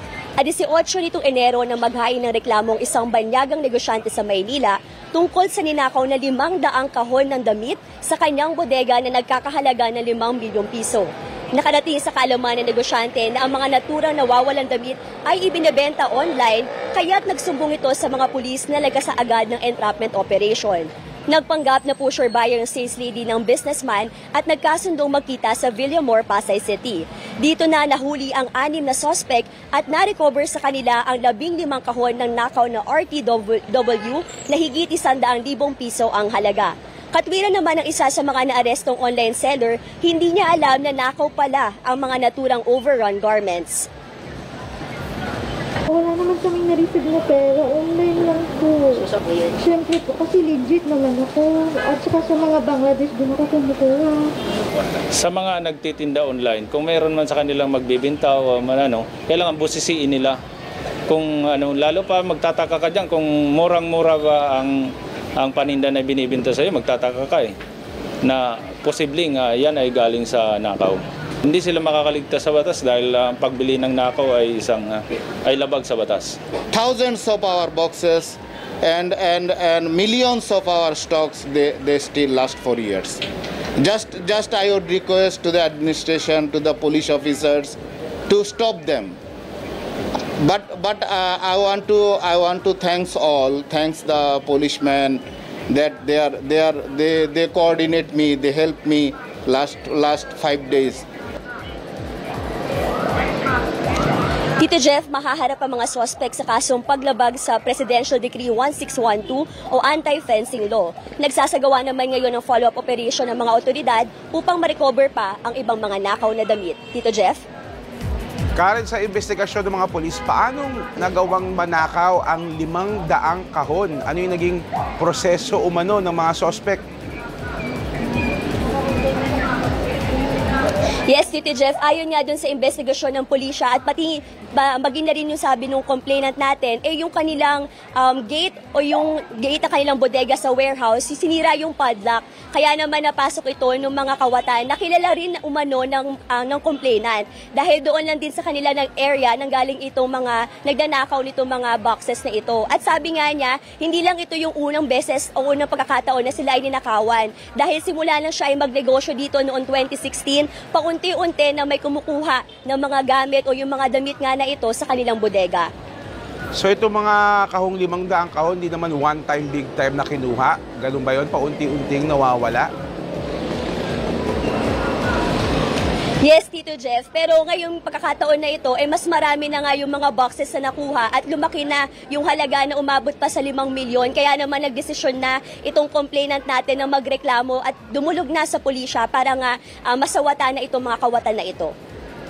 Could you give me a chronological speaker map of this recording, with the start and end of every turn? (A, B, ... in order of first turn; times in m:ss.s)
0:00.4-0:43.9 A
0:45.9-0:54.3 B
0:54.9-1:00.4 C
1:01.1-1:07.5 C
1:08.2-1:16.4 C
1:16.7-1:23.2 D
1:23.8-1:29.2 D
1:30.4-1:41.0 D
1:44.6-1:57.4 A
1:58.5-2:06.8 E
2:11.1-2:45.7 A
2:46.5-2:52.7 E
2:56.2-3:11.7 A